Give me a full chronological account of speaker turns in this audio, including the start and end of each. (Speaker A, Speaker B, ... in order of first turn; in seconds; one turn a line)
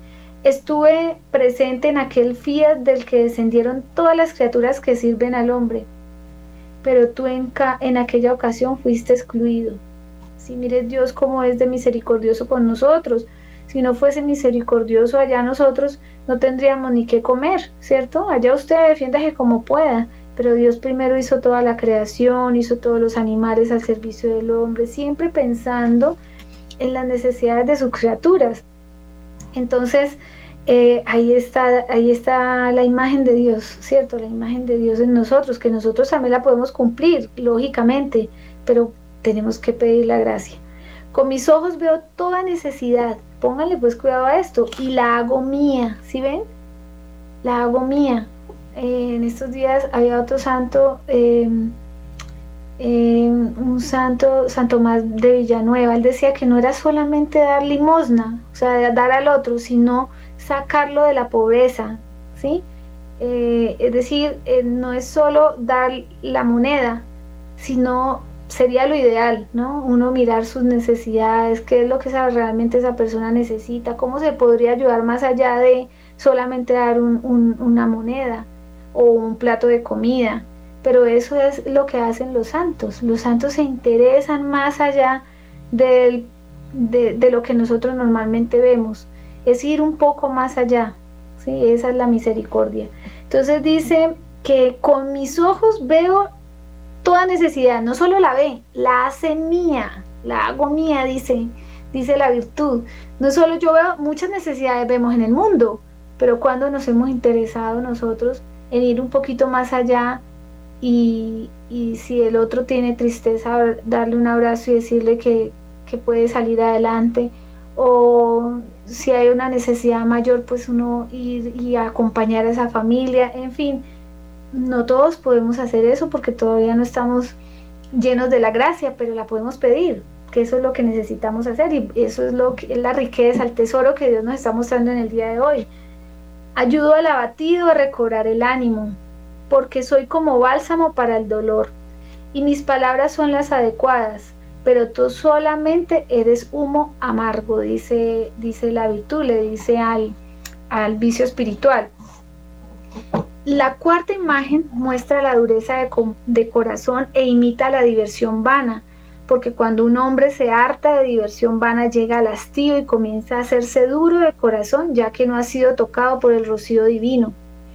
Speaker A: 0.4-5.9
Speaker A: 6.8-9.8
Speaker A: 10.4-26.2
Speaker A: 26.8-28.6
Speaker A: 29.5-46.4
Speaker A: 47.4-51.7
Speaker A: 52.8-62.6
Speaker A: 63.2-67.0
Speaker A: 67.6-96.3
Speaker A: 97.0-110.2
Speaker A: 110.8-123.8
Speaker A: 124.5-127.3
Speaker A: 127.9-135.7
Speaker A: 136.6-139.0
Speaker A: 139.5-141.7
Speaker A: 142.3-150.1
Speaker A: 150.7-151.9
Speaker A: 153.4-167.4